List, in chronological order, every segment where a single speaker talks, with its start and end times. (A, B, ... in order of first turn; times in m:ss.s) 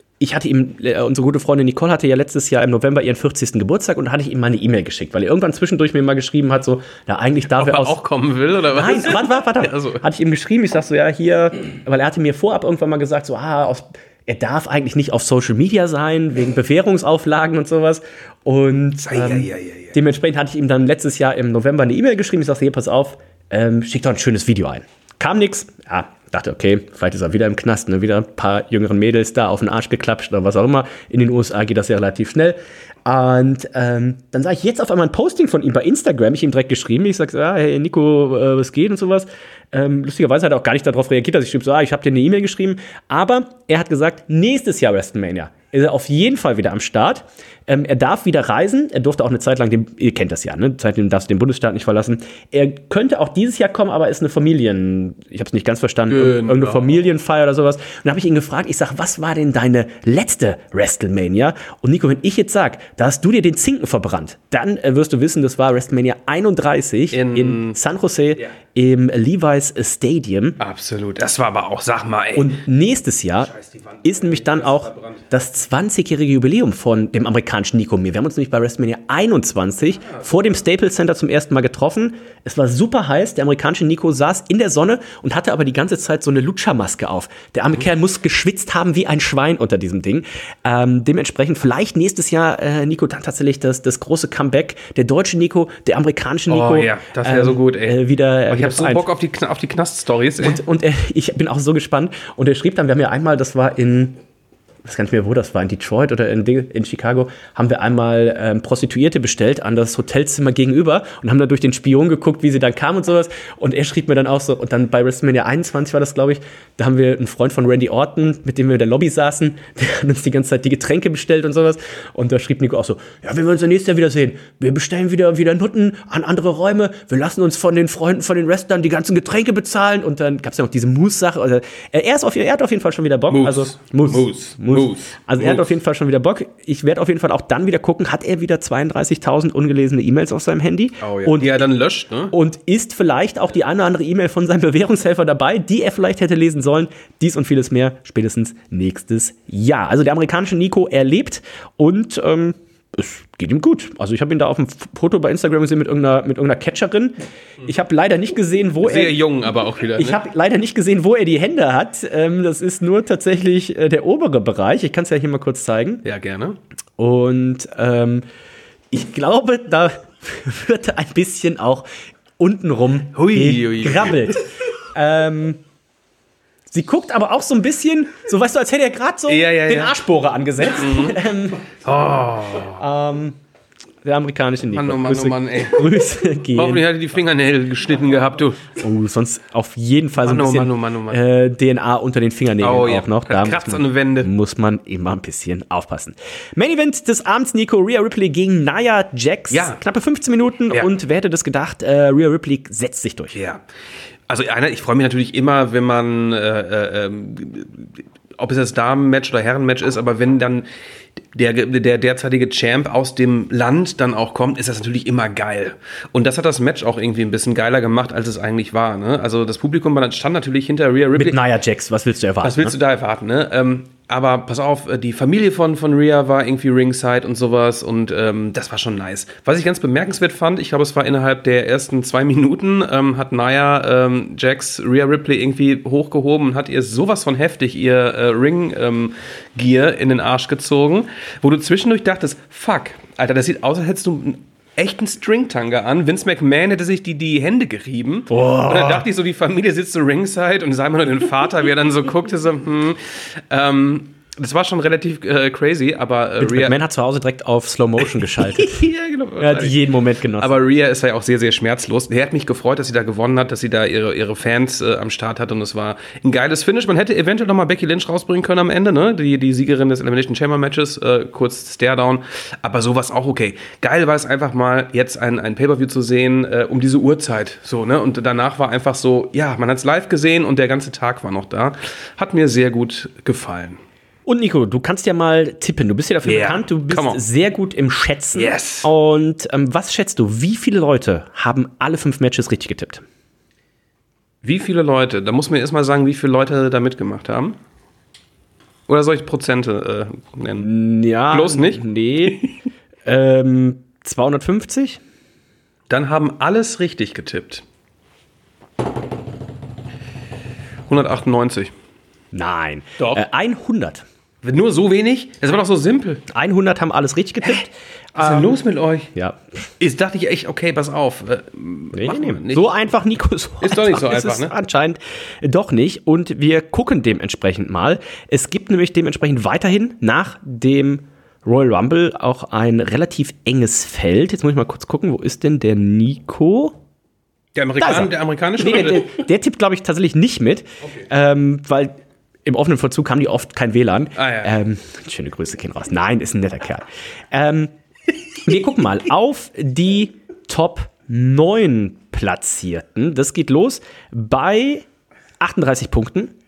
0:00.2-0:08.0 A
0:07.5-0:10.0 B
0:08.6-1:10.6 A
0:19.0-0:19.9 B
0:56.1-0:56.8 B
1:07.1-1:07.8 B
1:10.6-1:12.6 B
1:12.3-1:13.5 A
1:13.4-1:15.2 B
1:14.0-1:39.0 A
1:36.5-1:40.6 B
1:40.4-1:44.2 A
1:44.8-2:21.7 A
2:13.3-2:15.7 B
2:21.0-2:22.3 B
2:22.3-2:39.2 A
2:38.8-2:40.2 B
2:39.9-2:46.0 A
2:46.0-2:46.6 B
2:47.0-2:48.2 A
2:48.9-2:55.6 A
2:53.1-2:54.3 B
2:56.7-3:01.6 A
2:59.3-3:00.0 B
3:00.7-3:01.2 B
3:01.8-3:02.8 B
3:02.8-3:03.4 A
3:04.0-3:06.8 A
3:04.7-3:05.9 B
3:06.5-3:08.7 B
3:08.8-3:23.3 A
3:10.2-3:11.2 B
3:12.6-3:14.3 B
3:19.5-3:19.8 B
3:23.3-3:23.6 B
3:24.3-3:30.7 B
3:31.3-3:41.4 B
3:41.2-3:42.7 A
3:42.4-4:16.8 B
4:08.3-4:09.0 A
4:16.4-4:18.8 A
4:18.0-4:19.8 B
4:19.4-4:20.5 A
4:20.4-4:43.8 B
4:44.2-4:53.0 A
4:46.2-4:47.2 B
4:48.3-4:48.9 B
4:54.4-4:57.6 B
4:58.9-5:00.7 B
5:00.6-5:02.5 A
5:01.3-5:02.5 B
5:03.0-5:05.0 A
5:05.9-5:07.6 B
5:10.9-5:11.7 B
5:12.3-5:14.0 A
5:13.0-5:13.2 B
5:14.4-5:16.2 B
5:16.3-5:18.6 A
5:18.1-5:19.1 B
5:19.1-5:19.4 A
5:19.8-5:22.7 B
5:21.9-5:36.8 A
5:23.6-5:24.5 B
5:37.5-5:39.1 B
5:37.8-5:47.7 A
5:40.8-5:41.1 B
5:44.2-5:44.6 B
5:48.4-5:54.8 A
5:55.4-5:56.3 A